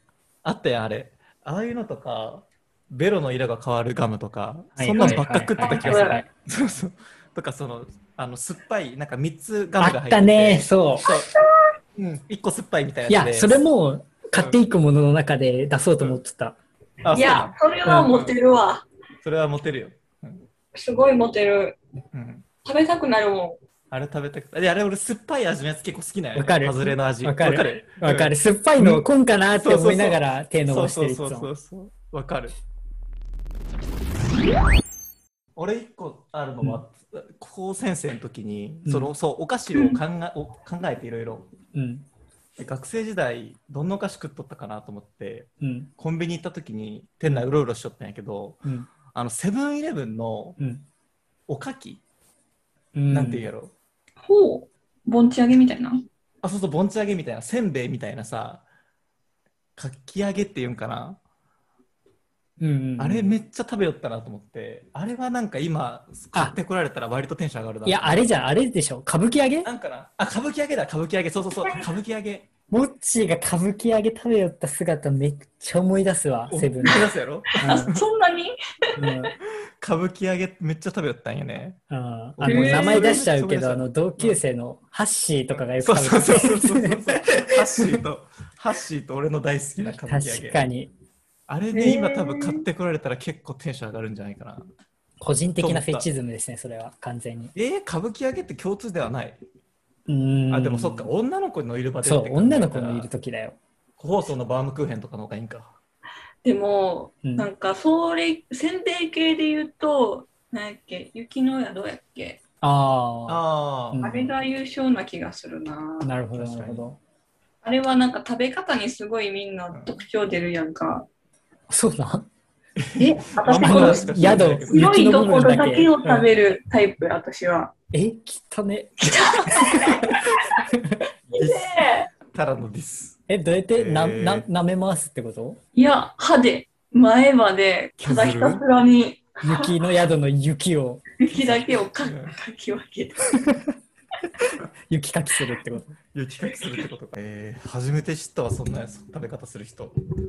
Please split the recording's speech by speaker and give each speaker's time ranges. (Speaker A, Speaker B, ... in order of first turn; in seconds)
Speaker A: 0.4-11.3, 11.9-13.6, 17.0-18.3, 19.2-20.4, 22.1-22.4, 23.9-29.1, 29.6-32.5, 35.5-41.5, 42.6-50.6, 51.5-52.0, 53.1-53.7, 56.4-58.6, 59.8-61.2, 63.0-68.3, 69.6-72.5, 76.5-78.0, 79.8-81.8, 82.4-84.4, 85.8-90.6, 91.5-94.7, 95.6-96.1, 97.5-99.4, 100.5-103.1, 104.0-105.7, 113.3-114.1, 116.3-116.9, 119.7-120.0, 122.8-124.9, 131.3-133.2, 133.7-134.4, 138.0-138.6, 141.4-142.3, 146.1-149.9
Speaker B: 4.8-6.2, 9.8-11.1, 13.1-16.6, 26.4-31.5, 38.8-39.1, 41.7-42.0, 45.6-45.9, 52.9-53.5, 62.6-63.4, 67.8-69.7, 72.7-77.1, 77.6-77.9, 79.0-79.3, 81.9-88.0, 89.8-90.9, 95.2-97.5, 100.1-101.1, 102.0-103.6, 112.6-114.3, 116.0-117.0, 121.7-122.3, 123.0-126.3, 127.9-131.0, 133.3-135.6, 139.4-141.0, 143.4-143.8, 144.9-145.9
Speaker C: 5.0-6.2, 17.1-18.9, 20.7-21.8, 22.6-23.6, 54.2-56.0, 77.6-78.5, 82.5-83.2, 91.7-92.6, 106.4-112.4, 114.0-116.1, 117.6-121.1, 123.0-127.7, 129.0-130.4, 131.3-132.1, 135.8-139.7, 141.2-143.3